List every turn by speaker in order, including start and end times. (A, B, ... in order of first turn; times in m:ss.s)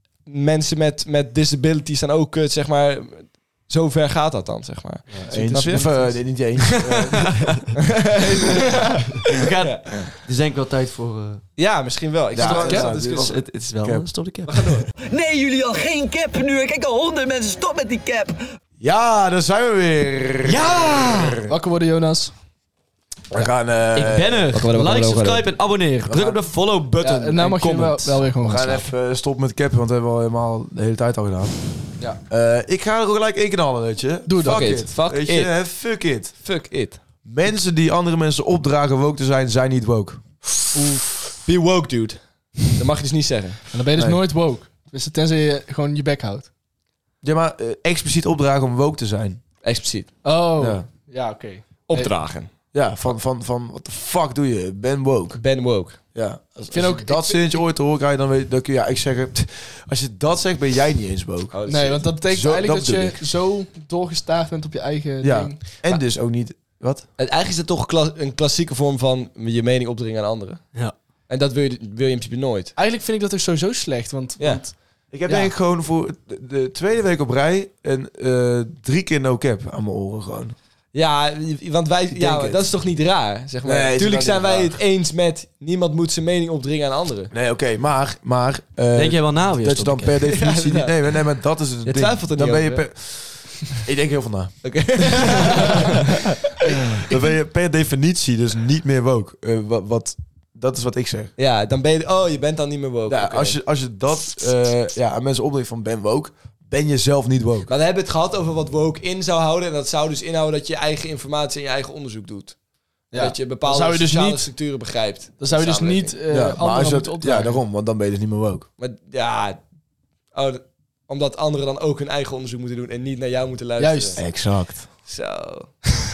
0:00.3-0:06.2 A
0:05.2-0:06.1 B
0:05.3-0:07.6 C
0:07.9-0:10.0 A
0:09.2-0:11.4 D
0:11.6-0:13.4 A
0:12.3-0:14.1 C
0:13.0-0:14.8 D
0:14.5-0:14.9 A
0:15.0-0:18.4 E
0:18.8-0:21.4 C
0:20.4-0:21.4 D
0:21.5-0:22.3 B
0:23.3-0:24.5 C
0:23.9-0:28.2 D
0:24.5-0:25.5 A
0:26.1-0:26.4 C
0:27.0-0:28.9 B
0:28.4-0:31.6 C
0:32.3-0:36.3 C
0:34.3-0:34.8 B
0:34.4-0:35.6 A
0:36.4-0:37.0 A
0:37.2-0:40.2 C
0:41.3-0:43.7 A
0:43.7-0:46.5 B
0:47.2-0:49.4 C
0:49.6-0:50.2 A
0:50.2-0:52.1 B
0:50.6-0:50.9 C
0:51.9-0:52.5 A
0:52.7-0:55.4 C
0:55.3-0:56.0 A
0:56.1-1:03.2 C
0:56.7-0:57.6 B
1:01.5-1:02.1 A
1:01.7-1:05.8 B
1:05.2-1:07.1 C
1:07.2-1:10.7 A
1:11.3-1:12.7 A
1:12.8-1:14.8 B
1:14.4-1:14.8 A
1:15.1-1:20.6 C
1:15.3-1:15.5 A
1:20.9-1:27.3 A
1:22.1-1:22.6 C
1:23.6-1:24.8 C
1:27.3-1:35.8 C
1:29.0-1:30.2 D
1:30.2-1:31.1 A
1:31.8-1:32.9 A
1:34.6-1:36.2 A
1:37.0-1:41.3 C
1:41.4-1:43.6 A
1:43.1-1:47.7 C
1:47.7-1:52.6 A
1:53.1-1:54.5 B
1:53.1-1:56.2 A
1:55.4-1:57.6 B
1:56.3-1:58.7 C
1:58.8-1:59.6 A
2:00.3-2:04.3 A
2:03.8-2:04.2 B
2:04.2-2:04.9 C
2:05.0-2:05.8 A